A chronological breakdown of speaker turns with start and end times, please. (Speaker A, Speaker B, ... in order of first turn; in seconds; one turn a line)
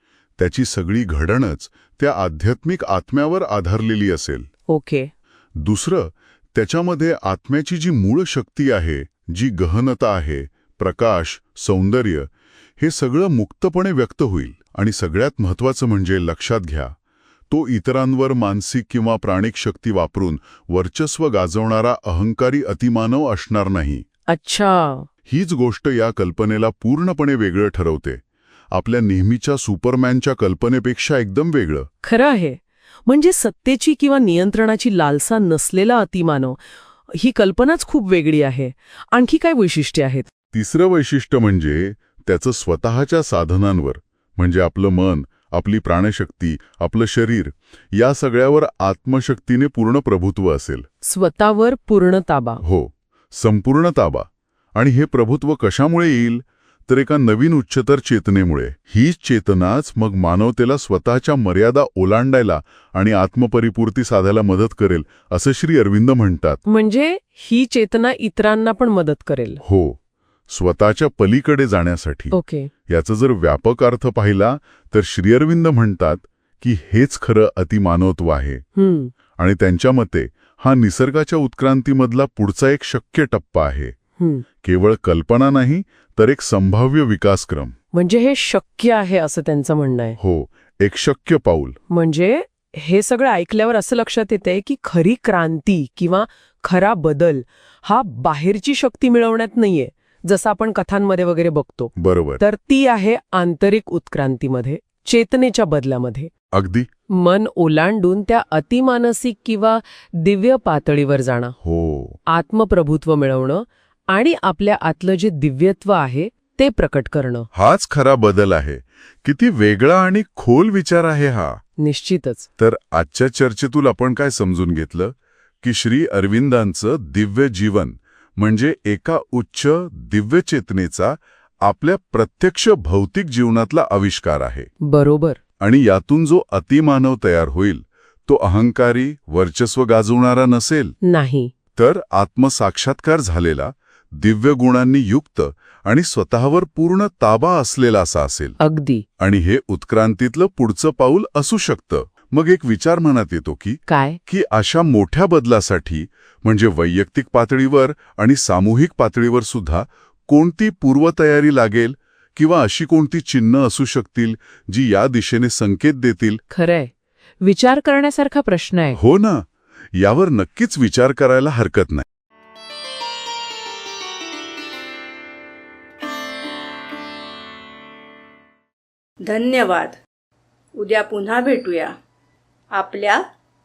Speaker A: 0.4-4.5
Speaker B: 4.7-5.1
Speaker A: 5.6-16.9
Speaker A: 17.5-24.0
Speaker B: 24.3-25.1
Speaker A: 25.3-28.2
Speaker A: 28.7-31.9
Speaker B: 32.0-40.3
Speaker A: 40.5-50.9
Speaker B: 51.0-52.6
Speaker A: 52.6-66.6
Speaker B: 66.7-69.6
Speaker A: 69.6-78.6
Speaker B: 72.3-72.7
Speaker B: 78.8-79.1
Speaker A: 79.4-83.9
Speaker B: 84.2-84.5
Speaker A: 84.6-87.7
Speaker B: 87.9-90.2
Speaker A: 90.2-91.8
Speaker B: 91.9-106.3
Speaker A: 102.0-102.4
Speaker A: 106.5-106.9
Speaker B: 107.1-111.5
Speaker A: 111.6-112.2
Speaker B: 112.3-117.5
Speaker A: 117.5-121.6
Speaker B: 121.8-122.5
Speaker A: 122.6-134.7
Speaker B: 134.8-135.4
Speaker A: 135.6-140.9
Speaker B: 141.0-141.5
Speaker A: 141.8-148.6
Speaker B: 148.6-149.1
Speaker A: 149.2-166.4
Speaker B: 153.9-154.2
Speaker B: 166.5-169.0
Speaker A: 168.9-172.0
Speaker C: 179.2-180.0
Speaker C: 180.7-181.9
Speaker C: 182.7-183.2